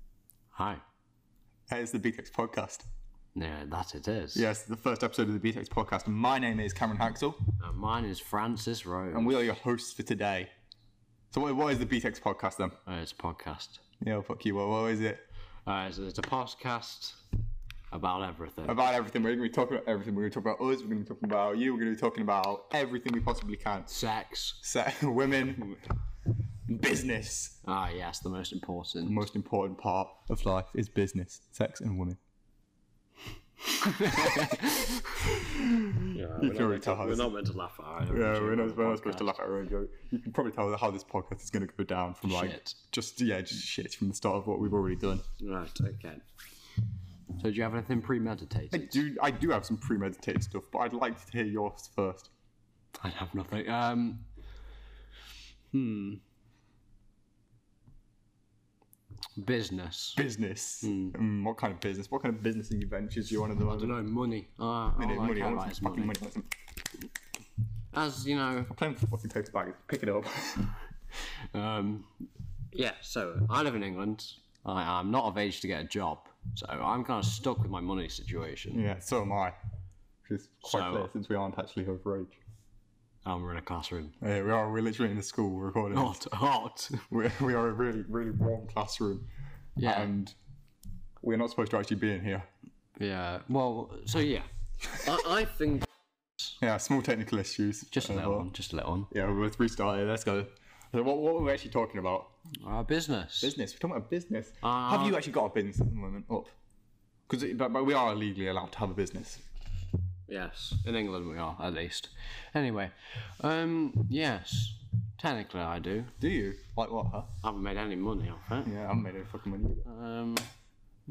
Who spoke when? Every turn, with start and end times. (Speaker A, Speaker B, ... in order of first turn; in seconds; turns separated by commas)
Speaker A: 0.5-0.8, Speaker B: 1.7-2.9, Speaker A: 3.3-4.5, Speaker B: 4.3-7.5, Speaker A: 7.6-9.5, Speaker B: 9.1-10.5, Speaker B: 11.3-12.8, Speaker A: 12.8-13.8, Speaker B: 14.0-15.2, Speaker A: 15.7-17.2, Speaker A: 17.9-18.8, Speaker B: 18.6-23.9, Speaker A: 23.9-24.6, Speaker B: 24.6-25.8, Speaker B: 26.7-27.6, Speaker A: 27.6-29.3, Speaker B: 29.0-32.2, Speaker A: 33.9-34.6, Speaker B: 34.9-37.3, Speaker A: 36.1-39.4, Speaker B: 38.1-45.2, Speaker A: 42.2-42.8, Speaker A: 45.4-46.2, Speaker A: 47.4-49.0, Speaker B: 48.7-52.3, Speaker A: 53.0-54.3, Speaker A: 55.7-56.2, Speaker A: 59.4-60.2, Speaker B: 60.1-64.0, Speaker A: 60.8-61.1, Speaker A: 63.6-66.2, Speaker B: 65.0-66.5, Speaker A: 67.9-68.7, Speaker B: 68.7-70.8, Speaker A: 71.5-72.1, Speaker A: 72.7-78.8, Speaker B: 78.7-79.5, Speaker B: 80.2-82.4, Speaker A: 80.6-81.1, Speaker A: 83.2-84.2, Speaker B: 84.2-86.2, Speaker A: 85.9-87.0, Speaker B: 87.1-89.3, Speaker A: 89.8-90.1, Speaker B: 89.8-90.3, Speaker B: 91.2-92.5, Speaker A: 93.0-95.8, Speaker B: 96.6-98.5, Speaker A: 97.9-99.1, Speaker B: 99.1-102.3, Speaker A: 102.6-103.5, Speaker B: 103.4-106.5, Speaker A: 104.6-105.2, Speaker B: 107.3-109.4, Speaker A: 110.3-116.2, Speaker B: 116.2-117.3, Speaker A: 117.4-118.7, Speaker B: 118.6-119.8, Speaker A: 119.8-120.5